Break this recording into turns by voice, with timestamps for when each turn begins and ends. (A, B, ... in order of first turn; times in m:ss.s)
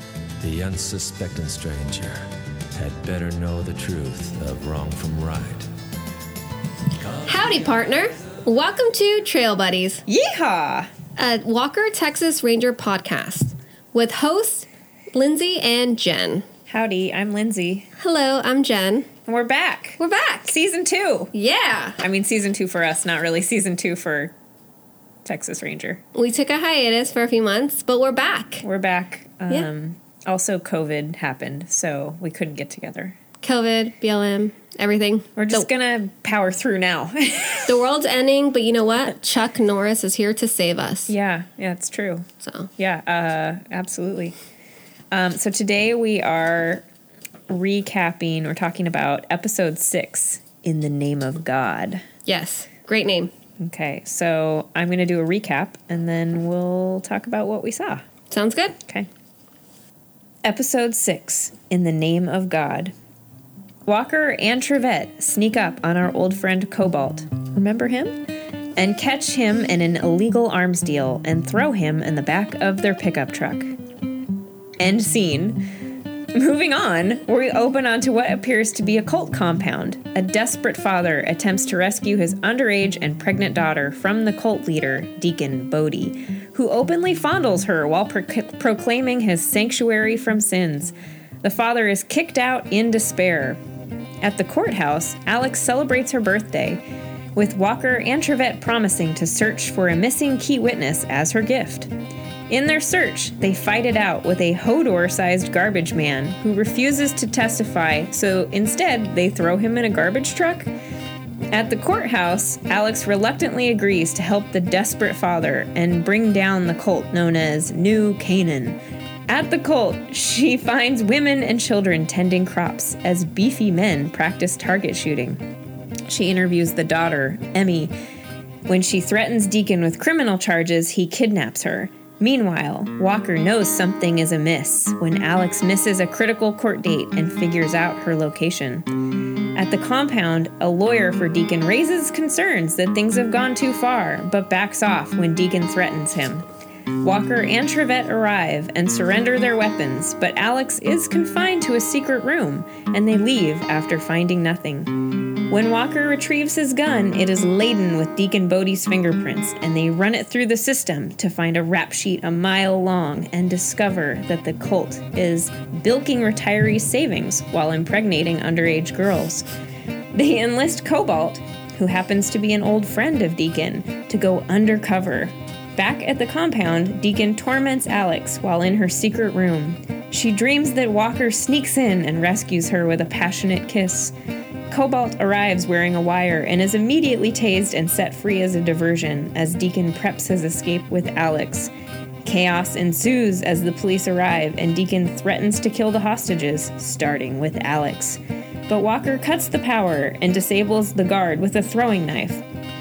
0:00.4-0:05.7 A
0:07.0-0:07.9 A
0:07.2-0:10.0 B
0:10.0-0:10.9 C
0:11.2-0:16.4 B
0:16.7-0:17.9 C
0:18.0-0:19.1 B
0:19.2-0:21.3 C
0:20.0-0:20.5 B
0:21.3-0:22.0 B
0:22.0-0:24.3 C
0:25.2-0:26.0 C
0:26.1-0:28.6 B
0:28.6-0:33.2 C
0:33.4-0:35.7 B
0:35.4-0:37.7 C
0:37.6-0:41.1 B
0:41.1-0:44.4 C
0:42.4-0:42.7 B
0:45.1-0:46.8 C
0:47.5-0:52.0 C
0:52.2-0:53.3 B
0:53.6-0:58.0 C
0:58.3-0:58.8 B
1:00.4-1:02.9 C
1:03.8-1:08.2 C
1:08.8-1:13.7 C
1:14.8-1:15.7 C
1:16.3-1:33.6 C
1:34.2-1:36.8 C
1:37.3-1:41.9 C
1:42.5-1:50.7 C
1:51.5-2:05.4 C
2:06.1-2:07.9 C
2:08.7-2:19.0 C
2:19.5-2:26.4 C
2:27.0-2:49.5 C
2:50.1-3:04.1 C
3:04.7-3:11.7 C
3:12.2-3:22.4 C